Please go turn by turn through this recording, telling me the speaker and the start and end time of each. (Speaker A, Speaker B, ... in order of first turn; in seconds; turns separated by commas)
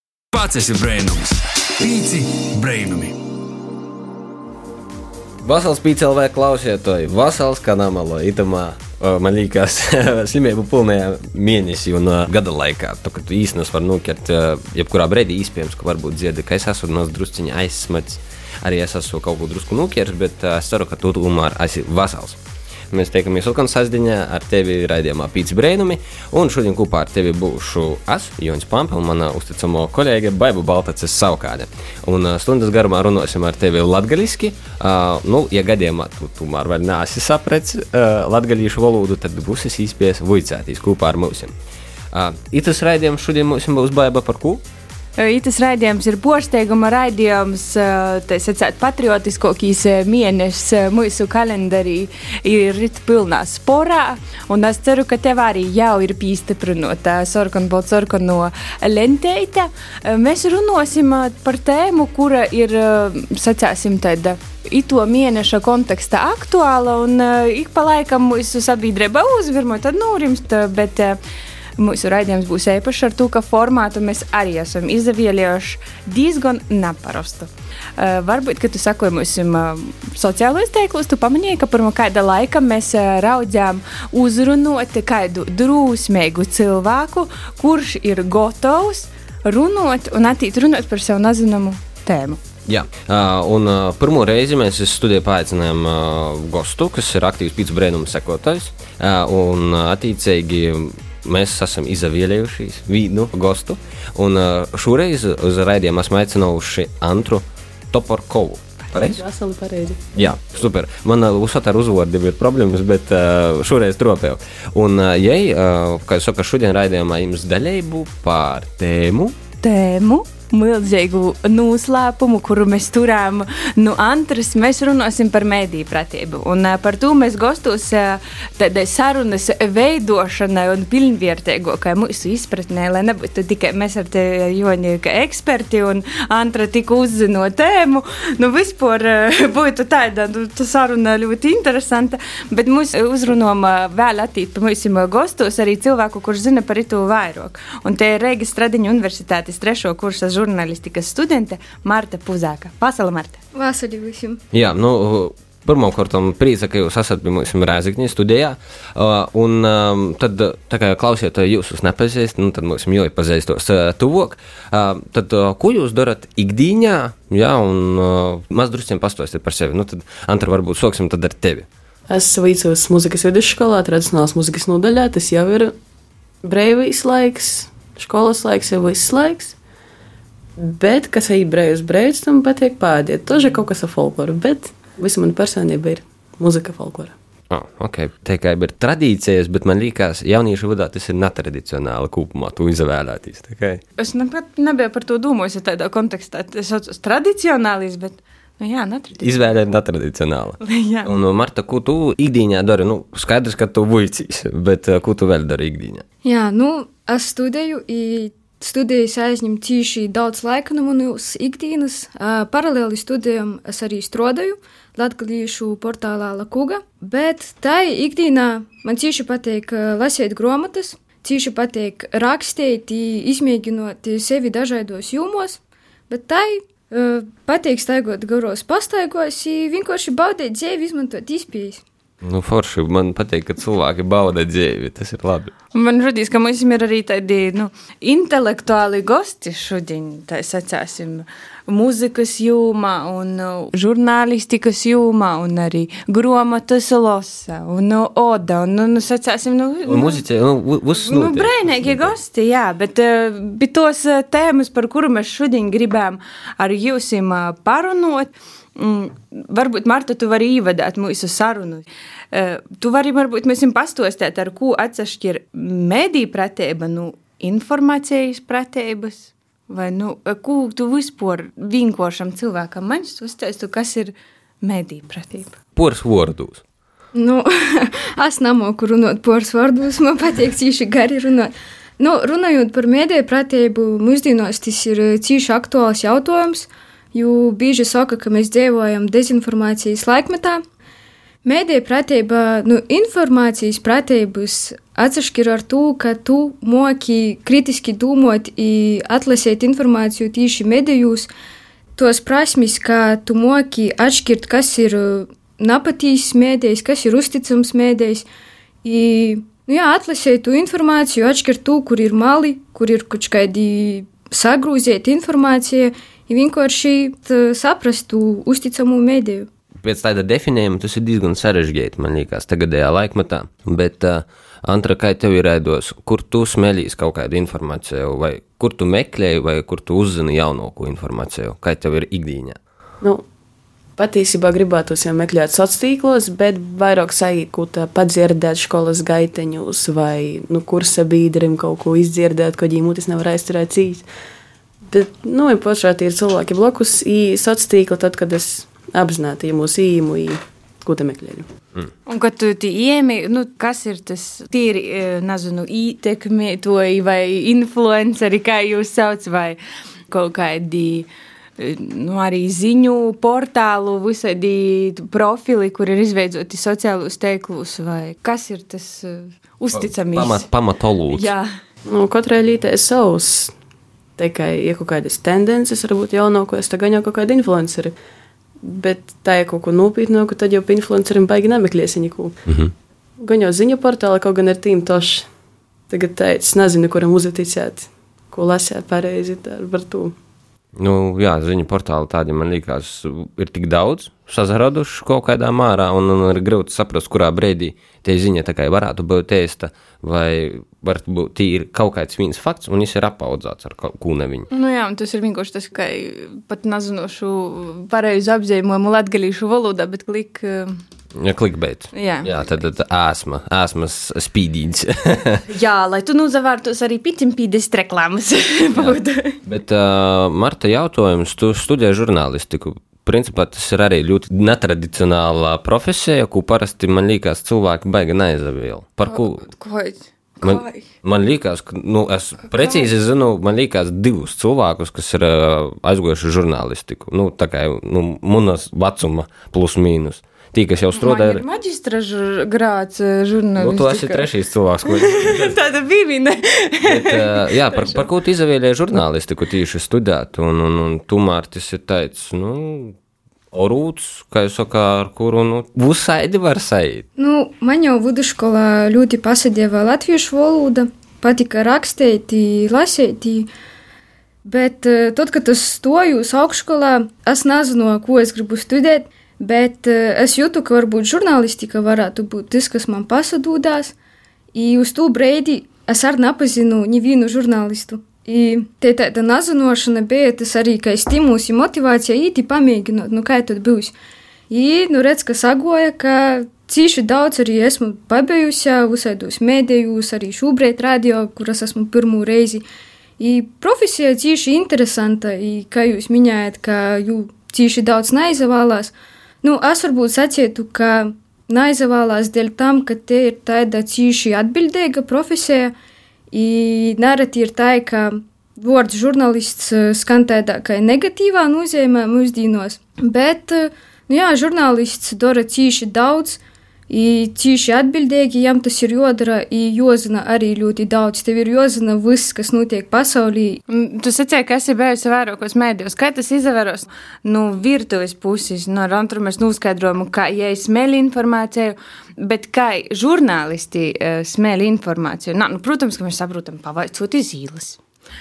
Speaker A: 0.3-3.1, Speaker B: 5.4-22.4, Speaker B: 22.9-41.5, Speaker B: 42.1-44.6, Speaker C: 45.2-71.2, Speaker C: 71.8-92.4, Speaker B: 92.7-109.2, Speaker D: 109.0-110.0, Speaker B: 110.1-119.4, Speaker C: 119.6-153.4, Speaker E: 153.5-154.4, Speaker B: 154.5-171.7, Speaker D: 172.1-175.7, Speaker D: 176.4-179.6, Speaker D: 180.6-187.2, Speaker B: 187.5-193.8, Speaker C: 194.0-199.4, Speaker B: 199.2-206.0, Speaker C: 200.6-201.1, Speaker E: 206.2-231.8, Speaker B: 232.2-235.5, Speaker C: 235.7-250.2, Speaker B: 249.9-252.2, Speaker C: 250.9-275.6, Speaker B: 275.8-276.6, Speaker E: 277.1-290.6, Speaker E: 291.4-301.3, Speaker E: 302.0-308.3, Speaker E: 308.8-319.5, Speaker B: 319.8-332.6, Speaker D: 334.0-344.1, Speaker D: 344.9-351.5, Speaker C: 352.1-359.6, Speaker C: 360.1-370.5, Speaker B: 369.7-371.3, Speaker C: 371.1-371.5, Speaker D: 371.9-373.5, Speaker D: 374.2-377.9, Speaker D: 378.6-382.4, Speaker B: 382.5-382.7, Speaker D: 383.2-385.3, Speaker D: 385.9-390.1, Speaker B: 390.8-404.5, Speaker C: 404.5-410.8, Speaker B: 411.2-415.4, Speaker C: 411.9-412.3, Speaker C: 415.5-419.4, Speaker B: 418.7-429.5, Speaker C: 429.1-430.9, Speaker B: 430.4-441.4, Speaker C: 432.6-432.9, Speaker C: 440.9-444.3, Speaker B: 443.6-445.6, Speaker C: 444.9-448.1, Speaker B: 446.9-453.0, Speaker B: 453.5-457.1, Speaker E: 457.2-463.5, Speaker E: 464.4-473.9, Speaker E: 474.5-483.9, Speaker E: 484.5-492.6, Speaker E: 493.2-505.7, Speaker E: 506.3-523.6, Speaker C: 523.7-537.8